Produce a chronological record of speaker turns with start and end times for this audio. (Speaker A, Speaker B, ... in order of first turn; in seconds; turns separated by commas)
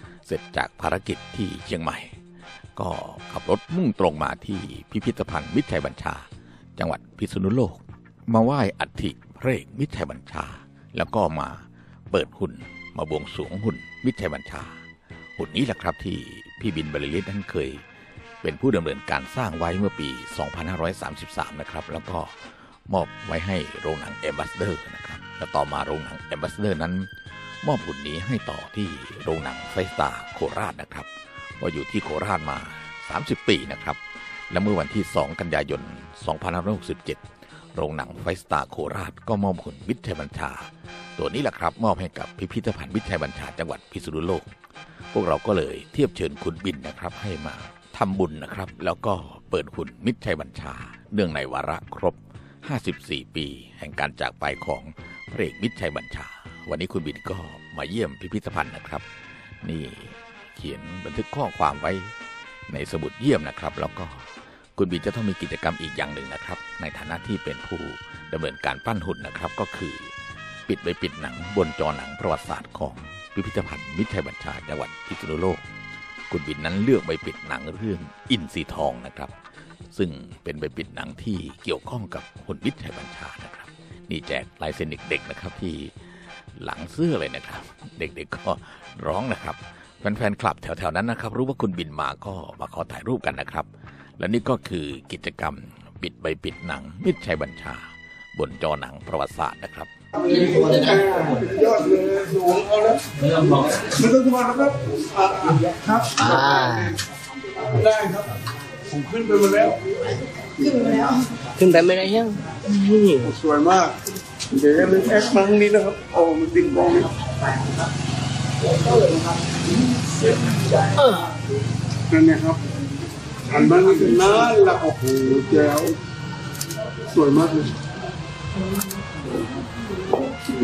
Speaker A: 0.2-2.2, Speaker A: 2.8-6.2, Speaker A: 6.8-14.8, Speaker A: 15.4-17.8, Speaker A: 18.4-22.4, Speaker A: 22.9-27.1, Speaker A: 27.6-44.5, Speaker A: 45.1-59.0, Speaker A: 59.6-62.1, Speaker A: 62.7-70.1, Speaker A: 70.7-75.6, Speaker A: 76.3-79.3, Speaker A: 79.9-86.0, Speaker A: 86.5-99.9, Speaker B: 100.1-103.0, Speaker B: 103.6-107.0, Speaker C: 106.1-107.0, Speaker B: 107.6-108.3, Speaker B: 108.9-109.8, Speaker B: 110.4-111.2, Speaker C: 111.5-113.3, Speaker B: 113.2-114.0, Speaker B: 114.5-117.1, Speaker C: 121.0-121.3, Speaker B: 122.1-122.6, Speaker B: 123.5-126.0, Speaker B: 127.1-127.8